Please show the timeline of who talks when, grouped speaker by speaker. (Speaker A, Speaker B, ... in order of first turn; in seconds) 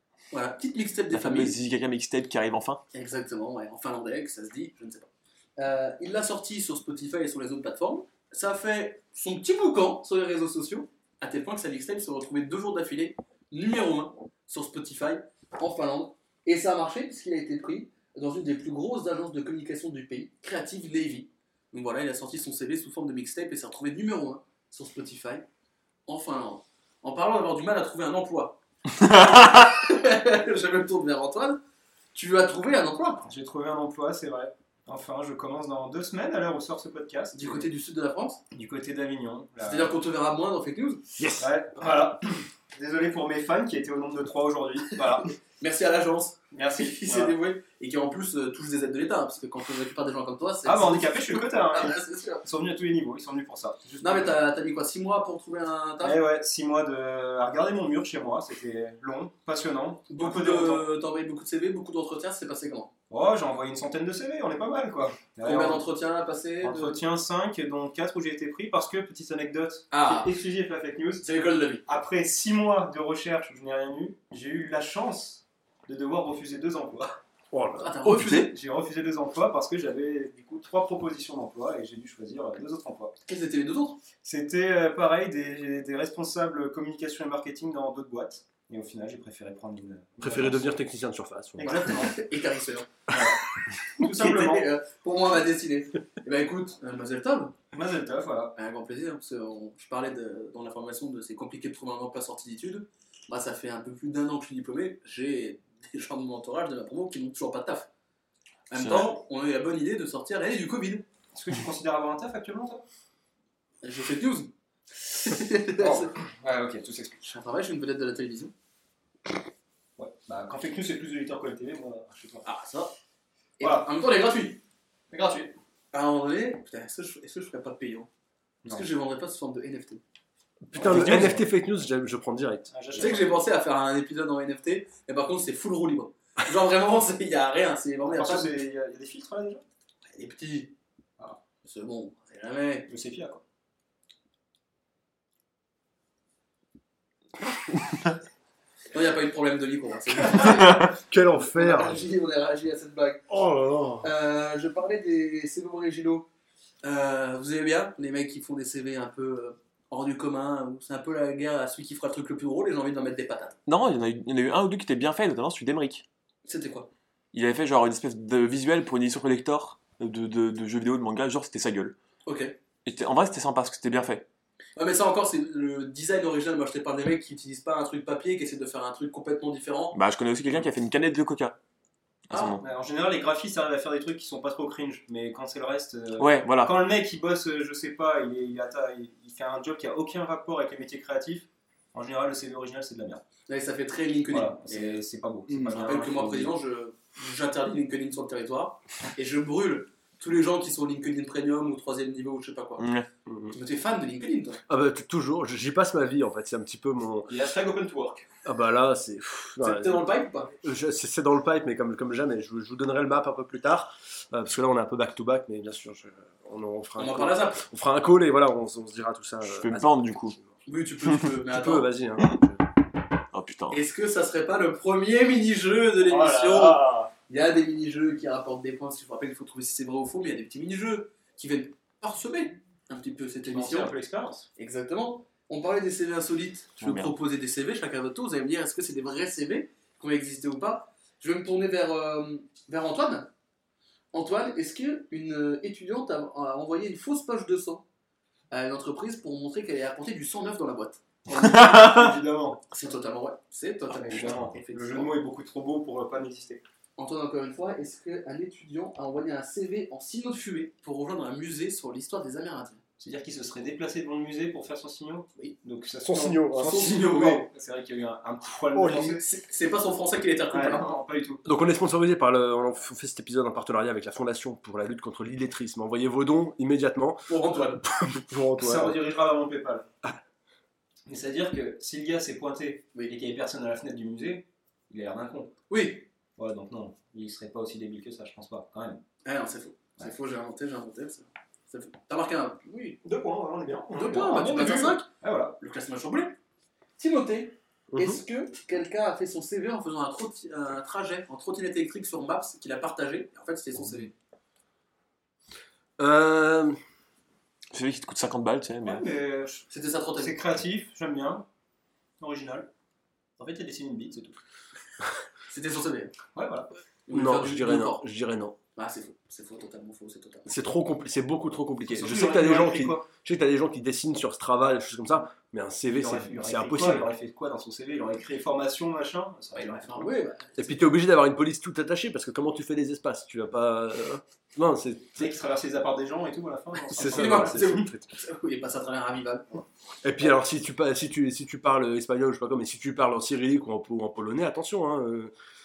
Speaker A: 0.3-1.6, 2.9-25.4, 26.1-31.6, 32.1-33.2, 37.4-38.4, 39.6-41.0, 45.6-52.5, 54.0-56.2, 60.1-62.9, 65.4-67.0, 69.9-70.3, 71.2-71.8, 77.8-78.5, 83.3-84.0, 91.6-92.9, 94.0-97.5, 98.5-107.9, 108.7-111.0, 113.8-116.1, 117.2-118.5, 122.5-122.9, 123.6-124.6, 125.9-128.1, 128.7-130.0, 132.9-138.6, 140.1-140.7, 141.6-142.9, 148.9-153.2, 154.0-156.3, 156.8-163.6, 166.4-166.9, 172.3-172.6, 174.8-180.0, 182.3-182.6, 193.5-195.0, 195.5-202.9, 203.5-204.6, 209.6-210.5, 217.0-217.6, 220.7-221.9, 223.7-233.9, 234.6-243.3, 244.1-247.8, 248.5-251.0, 252.7-255.1, 257.0-262.8, 266.6-267.5, 268.9-270.9, 277.3-277.8, 285.7-286.1, 289.2-293.0, 293.9-295.1, 295.6-296.4, 297.0-304.1, 309.7-310.4, 315.5-316.1, 317.1-318.1, 318.8-320.5, 329.6-330.8, 336.9-339.6
Speaker B: 1.1-2.8, 108.7-109.1, 163.7-166.1, 167.3-172.0, 172.8-174.3, 179.9-181.6, 182.3-182.6, 186.2-186.8, 202.8-203.1, 219.6-220.4, 223.3-223.8, 236.8-237.1, 307.7-309.1
Speaker C: 33.2-37.7, 38.5-40.0, 41.4-45.4, 46.5-47.3, 50.6-54.4, 56.0-60.9, 63.1-65.8, 66.6-71.2, 71.9-77.2, 78.1-83.2, 84.2-90.7, 91.6-92.2, 93.1-93.4, 94.0-94.7, 97.7-98.5, 111.3-112.8, 115.8-117.2, 120.0-122.5, 123.6-123.9, 125.1-125.5, 130.8-131.5, 132.7-133.4, 138.1-139.6, 142.9-143.4, 182.6-193.2, 194.3-196.5, 207.3-208.2, 226.1-227.1, 233.4-234.5, 251.3-252.6, 253.9-256.6, 263.0-269.2, 270.5-271.4, 278.6-279.9, 281.1-285.5, 286.4-289.0, 293.0-295.6, 308.8-311.4, 312.2-312.7, 313.4-314.4, 316.4-316.7, 321.9-323.1, 325.9-330.1, 335.2-337.9
Speaker D: 41.2-41.5, 77.5-78.3, 90.2-91.9, 130.7-133.2, 150.8-152.1, 153.3-154.1, 203.3-203.6, 204.7-207.5, 208.4-220.5, 221.5-222.6, 226.4-227.1, 266.0-267.2, 268.7-269.2, 271.4-279.0, 297.9-298.2, 306.0-306.8, 317.1-318.6, 320.5-327.1, 330.6-335.4, 336.9-338.1, 340.0-345.3